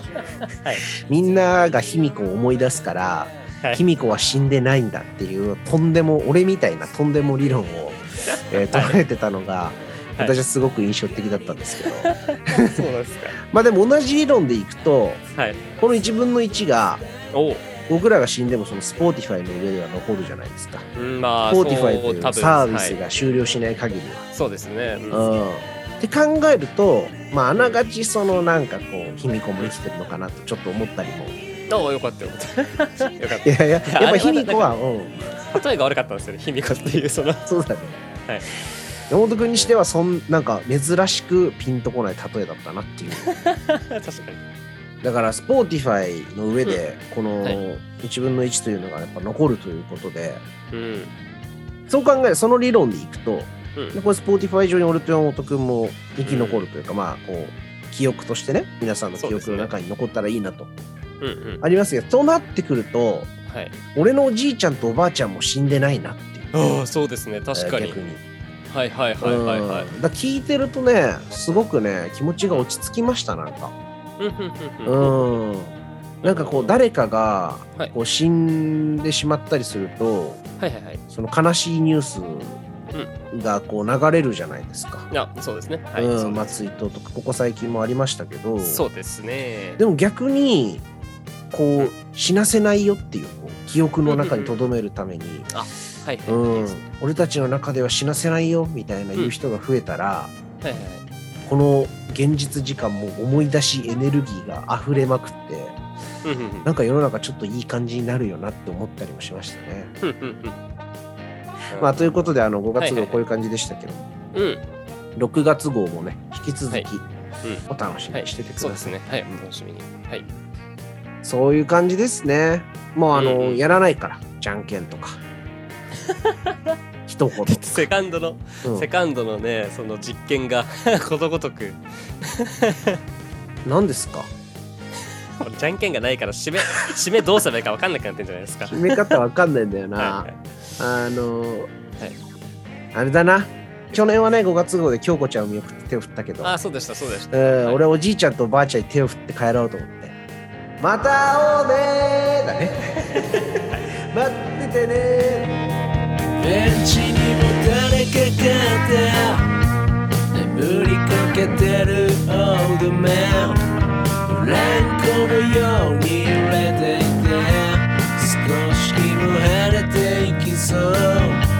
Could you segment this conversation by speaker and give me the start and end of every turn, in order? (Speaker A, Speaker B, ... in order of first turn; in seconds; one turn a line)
Speaker A: 0.4-0.8
Speaker B: 1.0-12.8
Speaker A: 8.2-9.0
Speaker A: 12.0-13.3
Speaker B: 13.4-15.2
Speaker B: 15.8-17.0
Speaker A: 17.3-17.6
Speaker B: 17.9-20.9
Speaker A: 20.9-23.0
Speaker B: 21.5-24.2
Speaker A: 24.3-25.3
Speaker B: 25.1-31.3
Speaker A: 27.5-27.8
Speaker A: 31.7-34.8
Speaker B: 33.4-35.6
Speaker A: 35.5-37.5
Speaker B: 37.4-38.0
Speaker B: 39.1-43.3
Speaker A: 43.2-44.4
Speaker B: 45.0-50.4
Speaker A: 50.7-51.1
Speaker B: 51.9-60.7
Speaker A: 56.2-56.7
Speaker A: 59.2-59.7
Speaker A: 61.2-61.6
Speaker B: 61.6-63.3
Speaker A: 63.5-63.7
Speaker B: 63.9-66.5
Speaker A: 66.5-68.0
Speaker B: 67.5-68.2
Speaker A: 68.7-69.9
Speaker B: 69.2-73.7
Speaker A: 74.2-75.4
Speaker B: 74.8-80.4
Speaker A: 76.2-76.8
Speaker A: 80.6-81.0
Speaker B: 81.1-82.6
Speaker B: 83.3-85.1
Speaker A: 85.1-86.6
Speaker B: 85.9-88.8
Speaker A: 88.6-89.8
Speaker B: 89.8-90.8
Speaker B: 91.5-95.5
Speaker A: 94.0-94.7
Speaker A: 95.5-96.7
Speaker B: 96.3-100.3
Speaker A: 100.6-101.0
Speaker B: 101.5-105.8
Speaker A: 106.2-106.7
Speaker B: 106.6-109.9
Speaker A: 110.0-110.5
Speaker A: 111.7-112.0
Speaker B: 111.8-114.0
Speaker A: 112.8-113.2
Speaker A: 114.3-114.6
Speaker B: 115.2-117.0
Speaker A: 117.4-120.2
Speaker B: 117.7-118.9
Speaker B: 121.2-125.2
Speaker A: 123.1-123.6
Speaker B: 127.0-127.9
Speaker A: 127.5-133.0
Speaker B: 128.6-128.9
Speaker B: 133.6-134.3
Speaker A: 135.4-139.2
Speaker B: 138.7-141.7
Speaker A: 140.0-140.3
Speaker B: 142.9-146.5
Speaker A: 146.4-147.8
Speaker B: 147.3-150.1
Speaker B: 150.8-155.6
Speaker C: 156.4-159.5
Speaker C: 160.3-163.6
Speaker C: 164.2-171.4